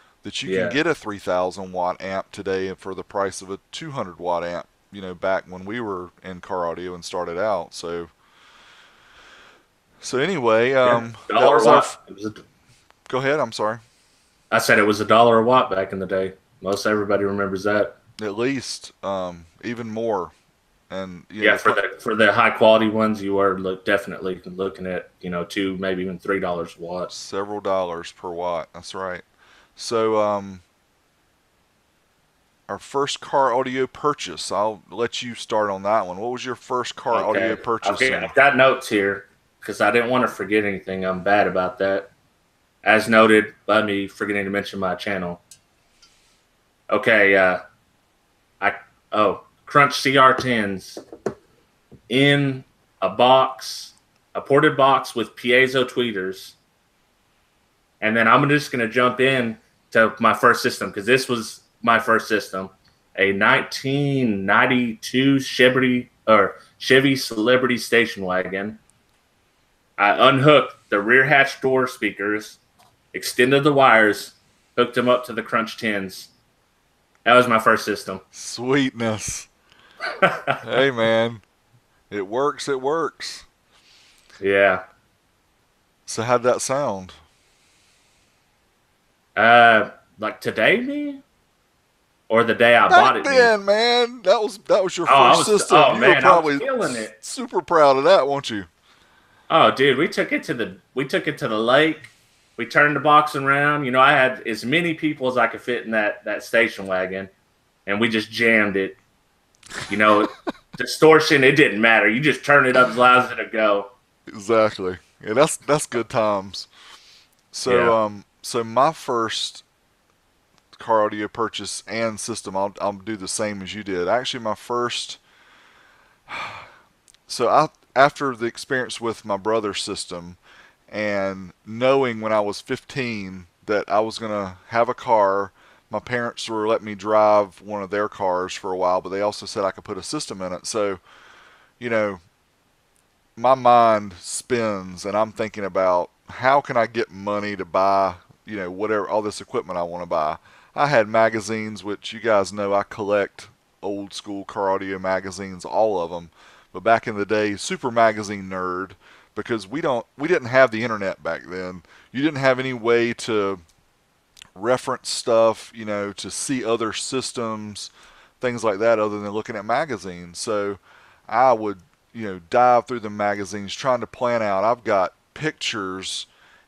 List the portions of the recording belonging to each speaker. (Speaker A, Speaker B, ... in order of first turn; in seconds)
Speaker A: 0.2-8.1, 10.0-12.0, 13.1-13.8, 18.2-20.3, 20.9-21.8, 27.1-29.2, 29.8-30.6, 32.7-38.3, 78.3-79.5, 80.6-81.4, 82.1-83.5, 86.1-87.2, 92.9-98.7, 114.3-116.7, 117.5-119.6, 120.8-125.2, 126.3-126.7, 127.3-130.4, 130.9-141.0, 141.8-142.2, 143.4-163.6, 164.6-176.3
Speaker B: 0.5-0.8, 10.8-12.4, 14.5-17.9, 21.4-27.1, 37.1-42.1, 42.8-45.4, 46.9-47.6, 48.6-51.0, 52.1-56.6, 58.0-68.8, 70.0-72.6, 73.1-76.3, 77.2-78.2, 80.2-80.6, 84.4-84.8, 89.4-91.2, 92.3-93.5, 95.1-97.1, 99.5-107.3, 107.9-109.0, 109.9-113.9, 117.7-118.0